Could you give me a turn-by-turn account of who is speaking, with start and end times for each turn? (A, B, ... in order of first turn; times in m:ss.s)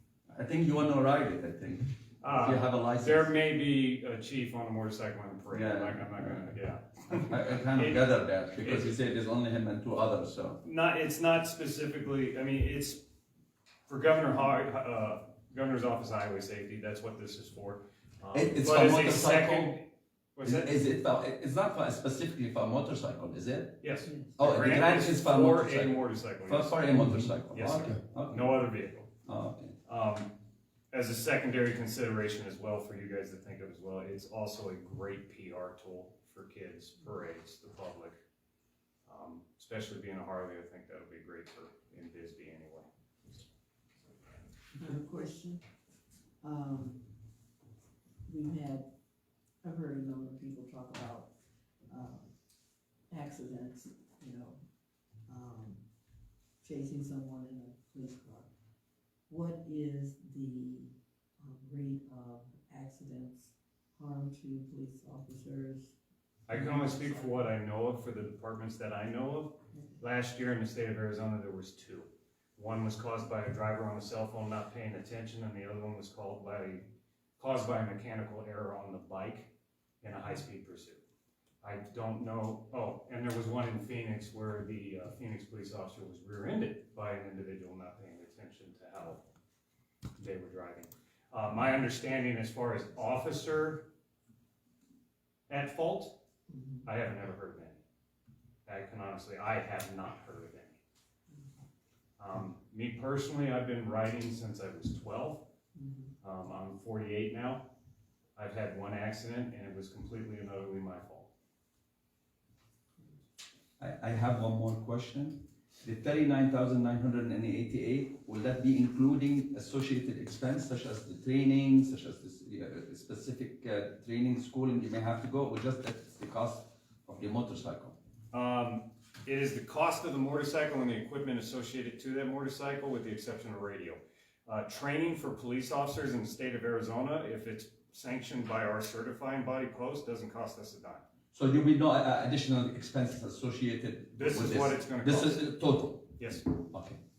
0:00.3-0:03.3 A
0:02.2-0:08.1 B
0:05.5-0:06.5 A
0:07.1-0:10.6 A
0:08.6-0:09.0 B
0:10.6-0:13.0 B
0:13.9-0:19.8 B
0:18.3-0:19.8 A
0:20.4-0:20.8 B
0:20.4-0:23.8 A
0:23.8-0:26.8 B
0:24.0-0:24.3 C
0:24.4-0:28.7 A
0:27.5-0:29.1 B
0:29.2-0:29.7 A
0:29.8-0:30.3 B
0:30.9-0:38.2 B
0:39.0-0:43.4 B
0:44.8-0:45.6 C
0:46.4-0:47.1 C
0:48.3-0:48.9 C
0:49.6-0:51.3 C
0:51.9-0:52.3 C
0:53.1-0:54.6 C
0:55.3-0:55.8 C
0:56.6-0:58.5 C
0:59.3-1:06.0 C
1:06.5-1:16.8 B
1:06.5-1:07.5 C
1:17.4-1:19.5 B
1:20.0-1:21.0 B
1:21.6-1:29.2 B
1:30.2-1:33.9 B
1:35.5-1:36.1 B
1:36.5-1:36.9 C
1:36.8-1:37.8 B
1:38.6-1:40.8 B
1:42.2-1:45.4 B
1:45.7-1:46.1 C
1:46.2-1:47.6 B
1:48.4-1:51.3 B
1:53.8-2:08.0 A
2:08.3-2:21.0 B
2:21.3-2:27.0 A
2:24.1-2:25.4 B
2:26.2-2:26.4 B